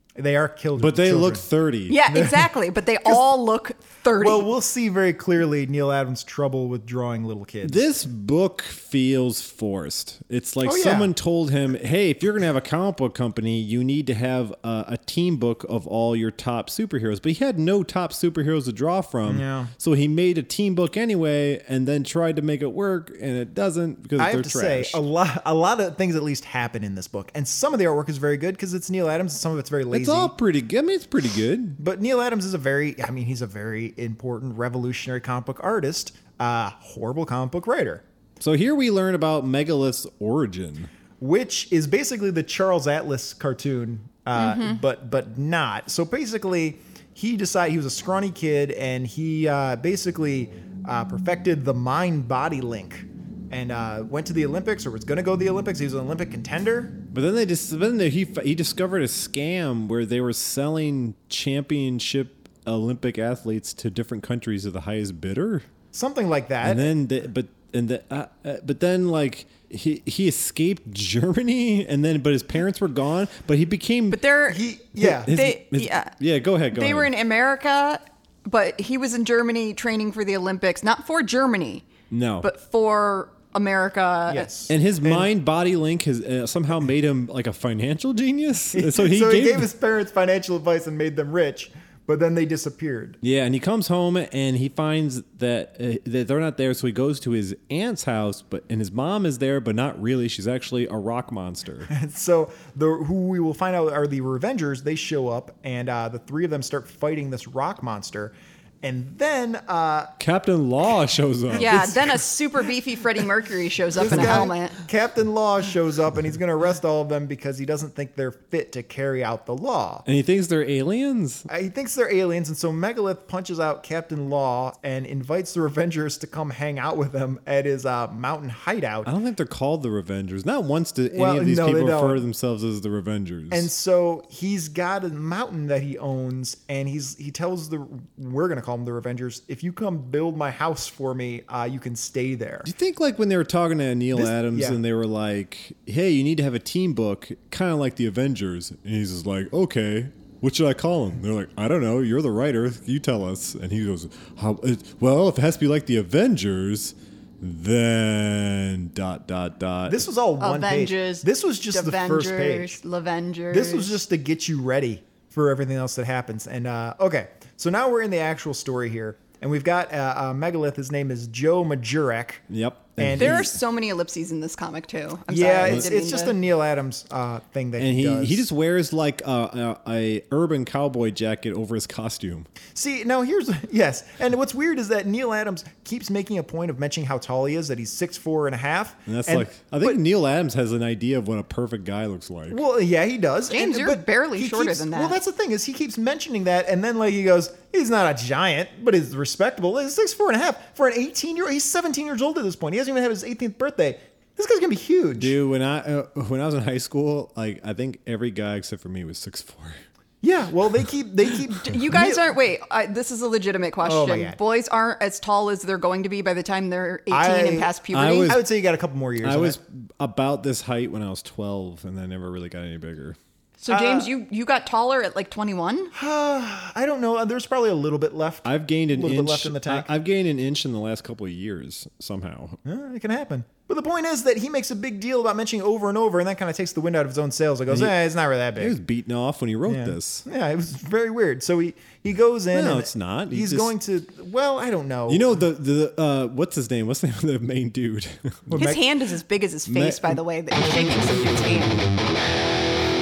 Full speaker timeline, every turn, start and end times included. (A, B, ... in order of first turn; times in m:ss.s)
0:00.2-0:01.4 A
0:00.8-0:02.0 B
0:01.9-0:04.4 C
0:02.1-0:02.5 A
0:04.2-0:07.8 A
0:07.6-0:25.0 B
0:10.6-0:11.1 A
0:19.2-0:19.7 A
0:24.2-0:30.3 A
0:29.9-0:31.8 B
0:31.8-0:38.0 A
0:38.4-0:40.9 B
0:41.2-0:57.0 A
0:44.4-0:44.8 C
0:57.1-1:05.7 B
1:05.9-1:06.9 A
1:06.6-1:14.2 B
1:14.1-1:14.6 C
1:14.5-1:15.3 A
1:15.0-1:17.1 B
1:15.3-1:16.1 C
1:16.7-1:21.9 C
1:22.1-1:22.5 B
1:22.4-1:24.5 C
1:24.3-1:25.3 A
1:24.7-1:29.7 B
1:28.7-1:33.2 A
1:33.2-1:41.9 B
1:41.9-1:50.1 A
1:50.2-1:51.9 B
1:51.5-1:54.8 C
1:51.7-1:52.2 A
1:54.0-2:00.0 A
1:54.0-1:54.5 B
2:00.0-2:01.5 B
2:01.5-2:09.1 A
2:09.0-2:13.7 B
2:11.1-2:12.2 A
2:13.5-2:22.7 A
2:22.6-2:40.1 B
2:24.1-2:24.8 A
2:39.9-2:42.8 A
2:40.4-2:44.0 C
2:43.5-2:52.4 A
2:52.5-2:53.5 B
2:53.0-2:53.4 A
2:53.2-2:56.3 C
2:55.3-2:58.4 A
2:57.8-3:02.5 B
3:02.7-3:10.0 A
3:09.1-3:12.6 B
3:12.5-3:25.4 A
3:13.5-3:15.2 C
3:25.2-3:29.8 B
3:30.2-3:32.3 A
3:31.6-3:38.4 C
3:33.8-3:34.4 A
3:37.1-3:39.6 A
3:37.9-3:38.4 B
3:39.2-3:43.2 B
3:43.6-3:45.9 C
3:43.7-3:44.1 A
3:45.9-3:49.9 A
3:48.4-3:52.6 B
3:52.6-3:58.8 A
3:57.7-3:57.9 B
3:58.6-4:00.2 B
3:59.6-4:05.3 A
4:02.5-4:03.7 B
4:05.1-4:08.6 B
4:08.5-4:08.8 A
4:08.6-4:11.9 C
4:09.7-4:10.2 B